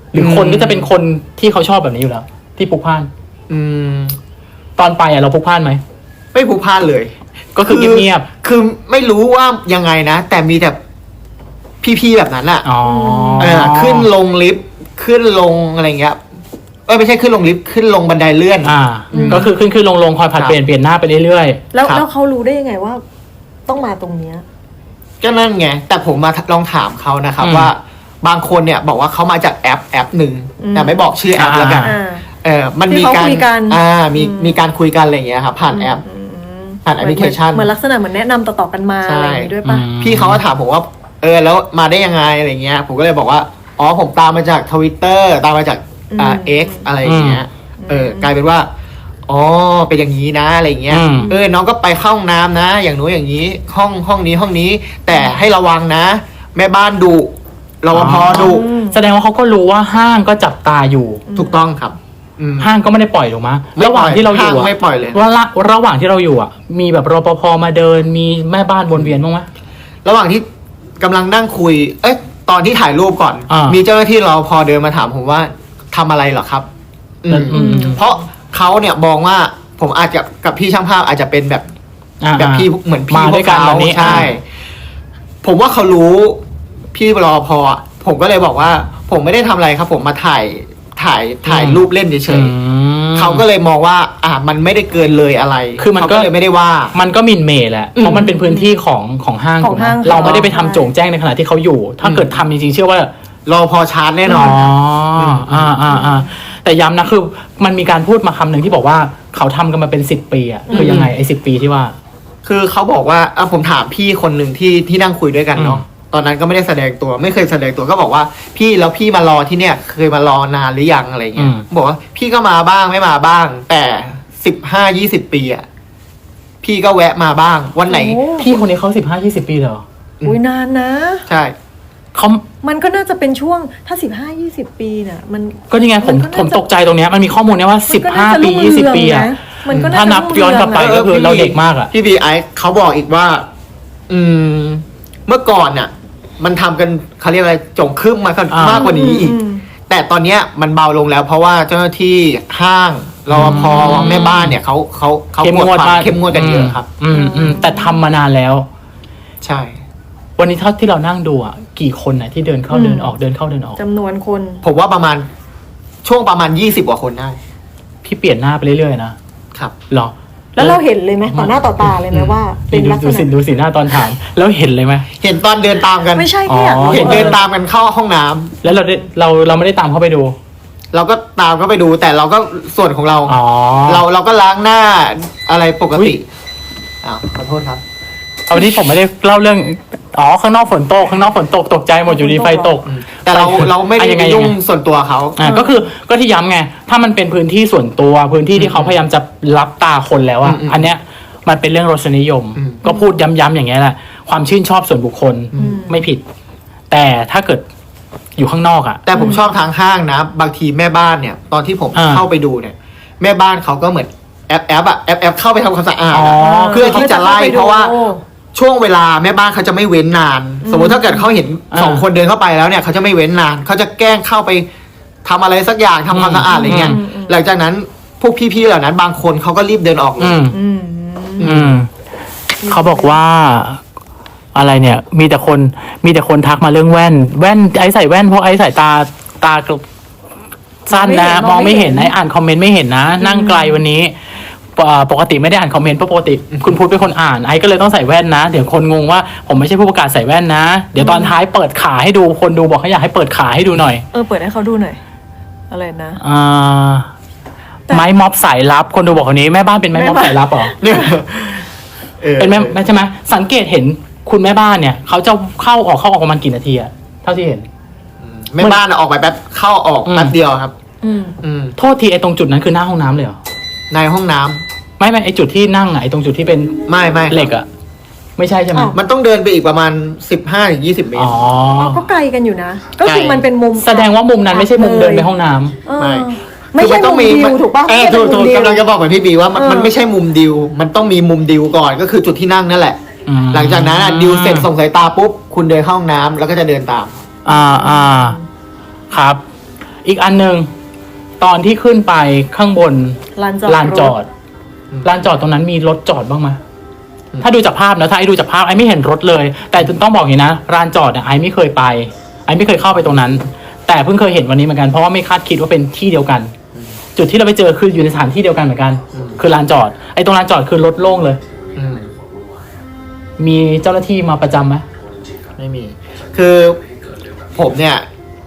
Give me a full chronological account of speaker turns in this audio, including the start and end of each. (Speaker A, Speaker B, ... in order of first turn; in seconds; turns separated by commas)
Speaker A: 0.1-3.1, Speaker B: 0.1-0.9, Speaker B: 3.5-4.2, Speaker A: 4.8-5.8, Speaker B: 6.3-10.8, Speaker A: 7.5-8.3, Speaker B: 11.8-12.7, Speaker A: 12.7-14.1, Speaker C: 12.8-13.6, Speaker B: 13.4-16.2, Speaker B: 16.9-19.5, Speaker A: 18.6-21.6, Speaker C: 19.1-19.5, Speaker C: 21.7-23.0, Speaker C: 23.7-24.4, Speaker B: 25.2-36.0, Speaker A: 27.4-27.7, Speaker C: 30.6-31.1, Speaker A: 31.4-31.9, Speaker C: 31.8-32.3, Speaker C: 32.9-34.6, Speaker C: 35.7-39.9, Speaker B: 36.9-37.7, Speaker B: 39.0-48.7, Speaker A: 39.6-40.4, Speaker C: 46.1-46.9, Speaker A: 47.0-47.4, Speaker C: 47.8-48.3, Speaker B: 49.3-58.6, Speaker A: 50.9-51.3, Speaker C: 51.1-51.4, Speaker A: 57.9-61.2, Speaker C: 58.2-59.0, Speaker C: 61.3-61.6, Speaker B: 61.4-62.7, Speaker A: 62.6-69.5, Speaker B: 63.8-65.2, Speaker B: 70.0-70.5, Speaker B: 71.0-76.7, Speaker A: 73.5-73.8, Speaker B: 77.2-81.7, Speaker A: 77.3-78.0, Speaker C: 77.5-78.2, Speaker A: 82.2-84.3, Speaker B: 82.4-84.4, Speaker B: 85.4-86.4, Speaker B: 86.9-92.5, Speaker A: 91.5-93.4, Speaker B: 93.2-97.0, Speaker A: 95.8-96.3, Speaker A: 96.9-103.1, Speaker B: 98.0-98.3, Speaker C: 98.0-98.8, Speaker C: 99.6-100.9, Speaker B: 100.2-100.5, Speaker B: 102.0-102.4, Speaker B: 103.5-105.9, Speaker C: 104.3-104.6, Speaker A: 104.3-112.0, Speaker C: 105.9-106.3, Speaker C: 110.7-111.0, Speaker B: 110.7-111.1, Speaker B: 112.4-125.7, Speaker A: 115.6-115.8, Speaker A: 121.4-121.6, Speaker B: 126.6-128.2, Speaker C: 127.9-128.5, Speaker A: 128.4-129.8, Speaker C: 130.2-131.3, Speaker B: 131.3-131.6, Speaker A: 132.2-132.4, Speaker C: 132.6-136.7, Speaker A: 135.7-141.9, Speaker C: 137.9-141.0, Speaker B: 139.7-140.0, Speaker B: 140.7-143.5, Speaker B: 144.1-156.8, Speaker A: 148.5-148.8, Speaker C: 148.7-149.6, Speaker A: 153.3-154.5, Speaker C: 153.7-154.3, Speaker A: 155.4-158.7, Speaker C: 157.1-158.0, Speaker B: 159.4-159.8, Speaker A: 160.4-163.8, Speaker C: 162.7-163.1, Speaker C: 163.8-164.6, Speaker B: 164.6-165.3, Speaker B: 166.0-167.4, Speaker A: 168.0-169.2, Speaker A: 169.9-170.8, Speaker C: 170.6-173.3, Speaker A: 171.3-171.9, Speaker B: 172.1-172.4, Speaker A: 172.7-175.1, Speaker B: 175.2-178.6, Speaker C: 176.1-177.4, Speaker A: 176.5-177.4, Speaker A: 178.6-180.3, Speaker B: 180.9-186.2, Speaker A: 183.3-184.0, Speaker B: 187.0-187.8, Speaker A: 188.5-194.6, Speaker C: 192.1-192.8, Speaker B: 192.9-195.4, Speaker A: 195.4-206.2, Speaker C: 195.4-195.9, Speaker B: 198.6-199.0, Speaker B: 200.4-200.9, Speaker B: 202.6-202.8, Speaker B: 205.5-205.8, Speaker C: 205.6-206.0, Speaker A: 206.9-207.6, Speaker A: 208.4-209.0, Speaker B: 209.1-218.0, Speaker C: 209.2-209.4, Speaker A: 211.9-212.2, Speaker A: 216.1-217.1, Speaker C: 216.4-218.2, Speaker B: 218.5-224.7, Speaker C: 220.6-221.3, Speaker A: 221.7-222.0, Speaker B: 225.2-230.4, Speaker A: 226.1-227.0, Speaker C: 226.5-227.4, Speaker A: 230.2-230.6, Speaker C: 230.5-231.6, Speaker B: 231.4-231.8, Speaker A: 231.4-231.9, Speaker C: 232.6-233.2, Speaker A: 232.7-233.8, Speaker A: 234.6-239.8, Speaker A: 240.9-244.1, Speaker C: 240.9-242.1, Speaker C: 243.2-243.8, Speaker A: 244.7-254.1, Speaker B: 246.5-246.8, Speaker C: 251.0-251.4, Speaker C: 254.1-255.0, Speaker C: 255.7-256.2, Speaker A: 256.2-257.1, Speaker A: 257.9-260.8, Speaker C: 259.9-261.1, Speaker B: 260.8-261.7, Speaker B: 262.2-262.9, Speaker A: 262.4-267.7, Speaker B: 268.2-270.7, Speaker A: 270.1-270.3, Speaker C: 271.0-271.4, Speaker B: 271.4-271.8, Speaker A: 271.8-273.4, Speaker B: 273.9-274.6, Speaker A: 275.0-277.7, Speaker B: 276.9-277.5, Speaker A: 278.4-279.0, Speaker B: 278.9-281.4, Speaker A: 281.2-282.0, Speaker C: 281.8-285.3, Speaker B: 283.0-283.5, Speaker A: 283.8-285.8, Speaker C: 285.8-288.9, Speaker B: 286.0-293.0, Speaker C: 289.6-289.9, Speaker A: 293.3-294.7, Speaker B: 293.5-297.2, Speaker A: 297.4-298.4, Speaker C: 297.5-298.5, Speaker A: 299.1-299.4, Speaker A: 300.1-300.7, Speaker A: 301.4-304.3, Speaker C: 303.4-304.1, Speaker B: 304.9-305.2, Speaker A: 305.0-306.6, Speaker A: 307.4-316.5, Speaker A: 317.2-321.4, Speaker B: 319.1-319.4, Speaker B: 321.8-322.1, Speaker A: 323.4-324.8, Speaker B: 325.6-326.8, Speaker B: 327.6-328.1